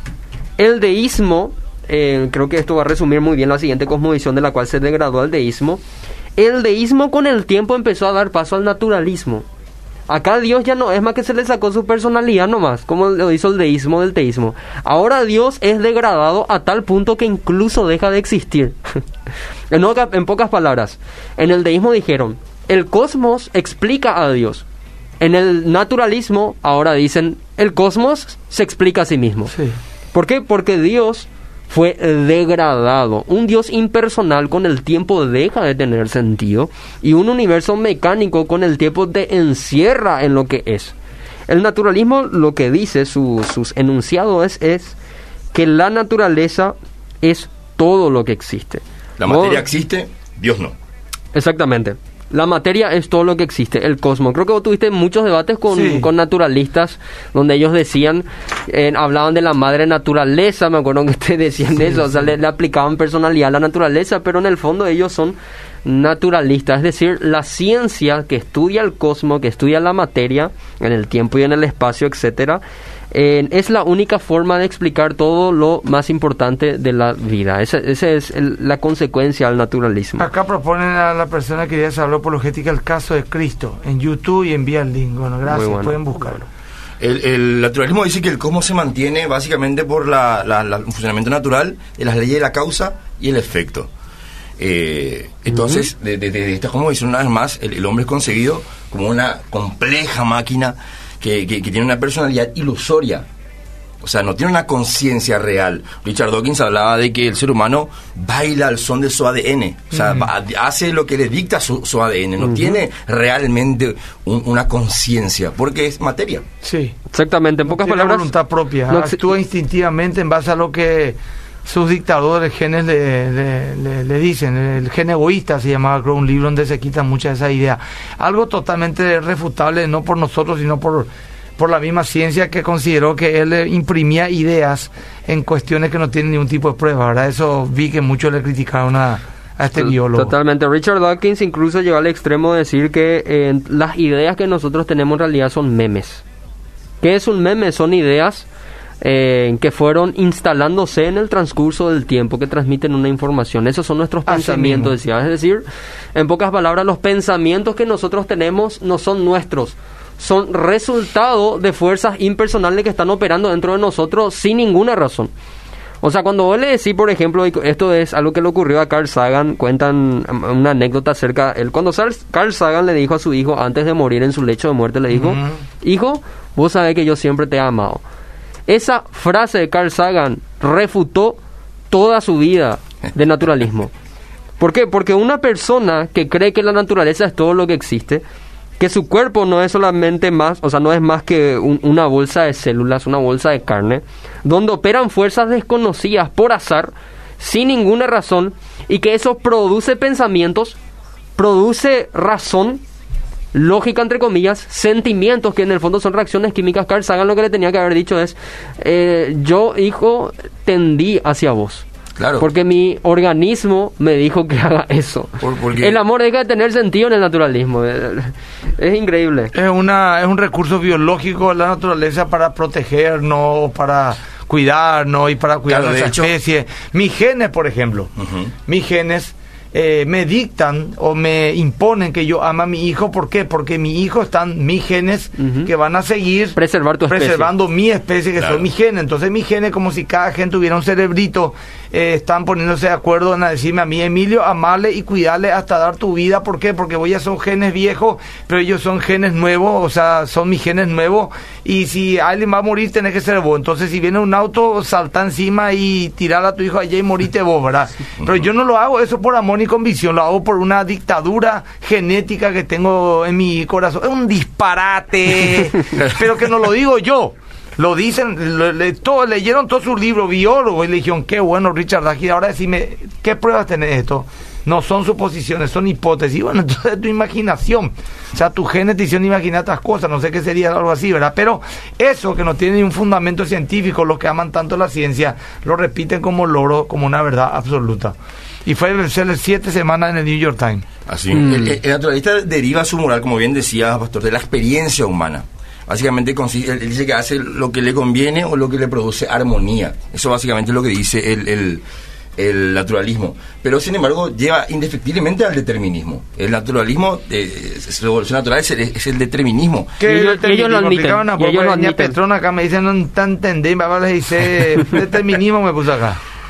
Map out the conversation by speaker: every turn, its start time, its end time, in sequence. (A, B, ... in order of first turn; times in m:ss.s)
0:00.6-0:05.8 A
0:06.4-0:09.5 A
0:10.1-0:19.0 A
0:19.7-0:24.6 A
0:25.2-0:29.5 A
0:30.1-0:41.0 A
0:41.5-0:45.0 A
0:45.5-0:49.7 A
0:49.2-0:50.8 B
0:51.3-1:20.3 A
0:55.7-0:56.1 C
1:20.2-1:26.4 C
1:25.5-1:26.5 A
1:27.0-1:33.9 B
1:34.6-1:43.3 B
1:35.5-1:35.8 A
1:44.0-1:56.4 B
1:49.9-1:50.3 C
1:56.6-1:57.0 C
1:57.1-1:58.3 A
1:57.7-2:20.3 C
1:58.9-1:59.2 A
2:19.8-2:26.2 A
2:27.0-2:28.5 A
2:29.0-2:45.3 A
2:34.3-2:34.9 C
2:46.0-2:58.0 A
2:55.1-2:55.5 C
2:58.7-3:01.4 A
3:01.9-3:03.9 A
3:04.6-3:08.2 A
3:08.8-3:20.8 A
3:21.4-3:22.8 A
3:23.5-3:31.9 A
3:32.2-3:32.5 B
3:32.4-3:39.5 A
3:35.4-3:36.0 B
3:39.5-3:48.1 C
3:45.7-3:46.3 B
3:48.2-3:48.5 B
3:48.7-4:50.8 C
3:55.4-3:55.7 A
3:56.6-3:57.5 A
3:58.4-3:58.7 B
4:51.1-5:01.8 B
4:51.4-4:51.7 A
5:02.4-5:09.9 B
5:10.0-5:16.2 C
5:10.0-5:12.2 A